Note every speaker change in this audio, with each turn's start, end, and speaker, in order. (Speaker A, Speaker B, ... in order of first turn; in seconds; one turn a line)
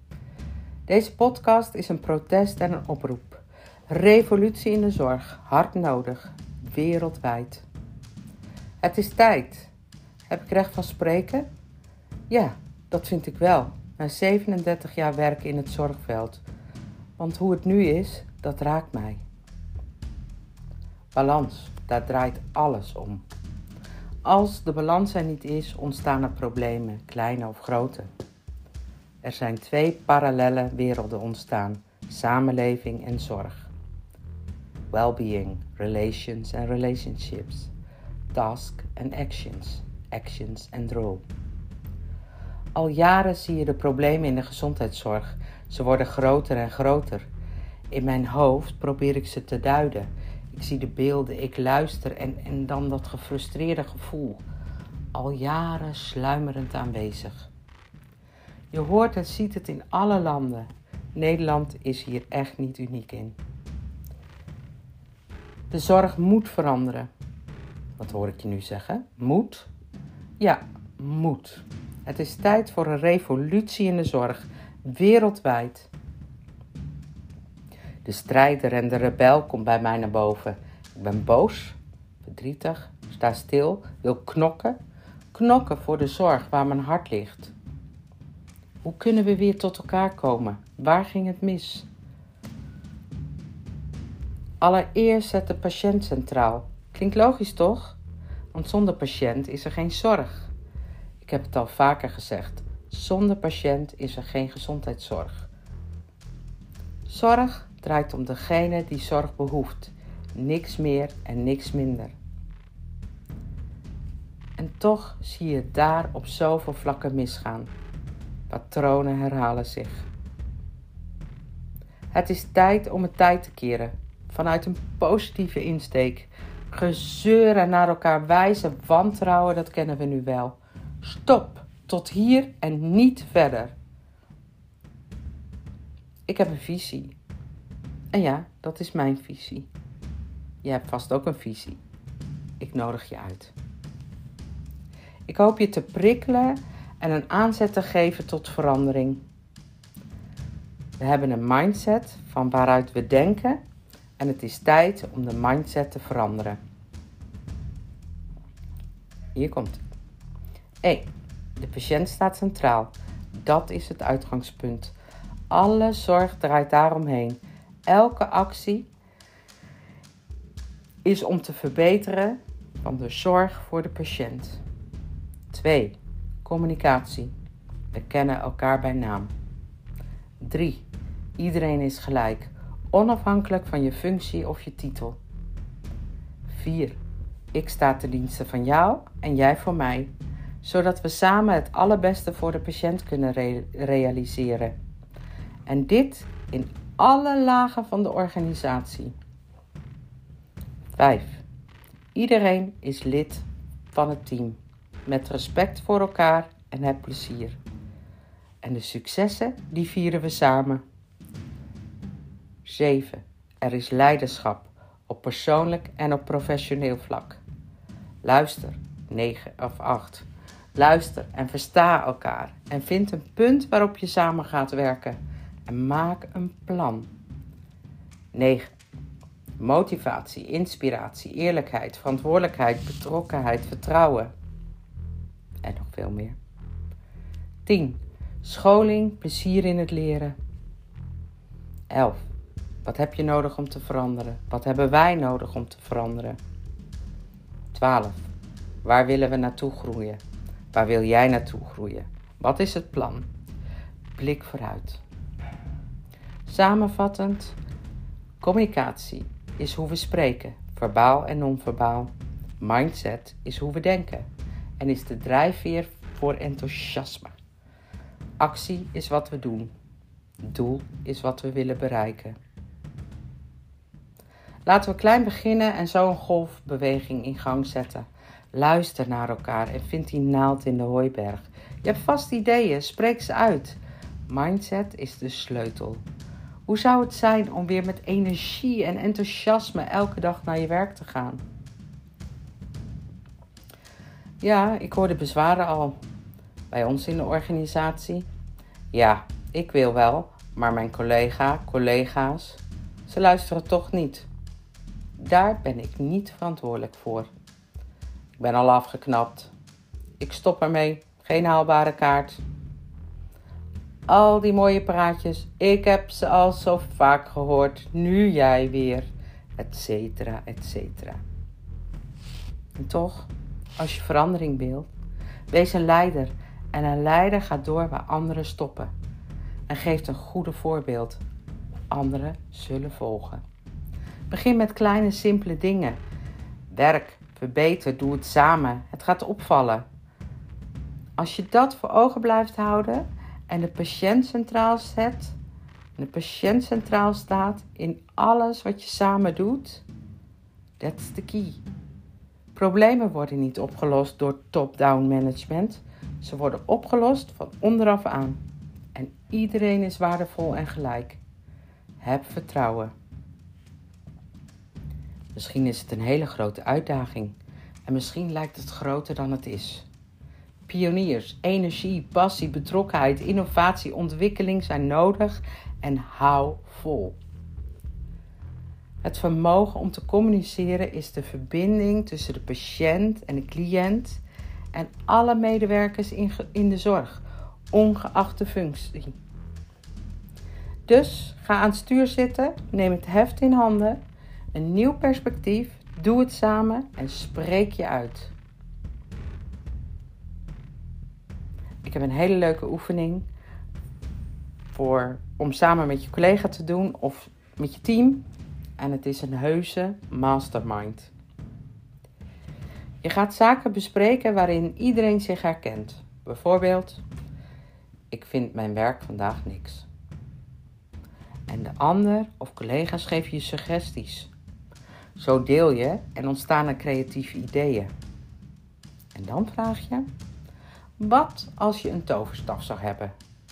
Speaker A: 0.9-7.6
Speaker A: 8.8-9.7
Speaker A: 10.3-11.5
Speaker A: 12.3-16.4
Speaker A: 17.2-19.2
Speaker A: 21.1-23.2
Speaker A: 24.2-28.1
Speaker A: 29.2-33.7
Speaker A: 34.9-37.7
Speaker A: 38.3-41.2
Speaker A: 42.7-47.3
Speaker A: 47.9-54.4
Speaker A: 55.1-57.5
Speaker A: 58.7-63.4
Speaker A: 65.7-67.1
Speaker A: 68.0-69.7
Speaker A: 70.4-75.9
Speaker A: 78.0-84.8
Speaker A: 85.3-87.5
Speaker A: 88.8-91.9
Speaker A: 94.6-98.0
Speaker A: 98.5-100.5
Speaker A: 101.2-105.5
Speaker A: 107.1-112.1
Speaker A: 114.6-117.7
Speaker A: 118.5-120.1
Speaker A: 122.1-133.7
Speaker A: 136.3-137.2
Speaker A: 138.1-139.7
Speaker A: 140.6-141.8
Speaker A: 142.6-143.5
Speaker A: 145.3-149.2
Speaker A: 151.0-153.6
Speaker A: 154.2-156.6
Speaker A: 159.3-159.8
Speaker A: 160.8-164.9
Speaker A: 165.5-168.9
Speaker A: 171.0-174.6
Speaker A: 175.5-177.3
Speaker A: 177.9-179.3
Speaker A: 180.4-180.8
Speaker A: 181.4-185.2
Speaker A: 186.5-187.0
Speaker A: 187.5-194.8
Speaker A: 195.7-199.2
Speaker A: 200.9-201.4
Speaker A: 202.1-207.6
Speaker A: 208.6-210.8
Speaker A: 212.6-217.4
Speaker A: 218.2-227.1
Speaker A: 228.3-228.7
Speaker A: 229.6-234.3
Speaker A: 235.6-236.3
Speaker A: 237.7-240.3
Speaker A: 241.9-242.2
Speaker A: 242.8-246.4
Speaker A: 247.7-248.2
Speaker A: 248.8-250.2
Speaker A: 250.7-253.3
Speaker A: 254.1-255.0
Speaker A: 256.4-257.6
Speaker A: 258.4-264.3
Speaker A: 264.8-267.4
Speaker A: 268.4-269.7
Speaker A: 270.4-272.4
Speaker A: 274.6-286.0
Speaker A: 286.7-291.4
Speaker A: 294.4-296.0
Speaker A: 296.7-298.3
Speaker A: 298.9-304.3
Speaker A: 305.2-307.3
Speaker A: 308.4-309.5
Speaker A: 310.2-312.4
Speaker A: 314.1-321.2
Speaker A: 322.8-324.9
Speaker A: 325.5-328.9
Speaker A: 329.7-331.2
Speaker A: 331.9-333.4
Speaker A: 334.3-336.0
Speaker A: 336.7-339.9
Speaker A: 341.2-345.4
Speaker A: 345.9-349.8
Speaker A: 350.8-351.6
Speaker A: 352.5-358.4
Speaker A: 358.9-361.2
Speaker A: 362.0-362.9
Speaker A: 365.3-369.9
Speaker A: 370.7-377.2
Speaker A: 379.0-384.2
Speaker A: 384.7-389.2
Speaker A: 390.9-394.0
Speaker A: 394.5-398.3
Speaker A: 401.8-403.3
Speaker A: 404.7-408.2
Speaker A: 408.8-411.1
Speaker A: 413.0-417.0
Speaker A: 418.1-419.9
Speaker A: 421.5-424.3
Speaker A: 425.1-427.9
Speaker A: 429.1-430.1
Speaker A: 431.0-433.1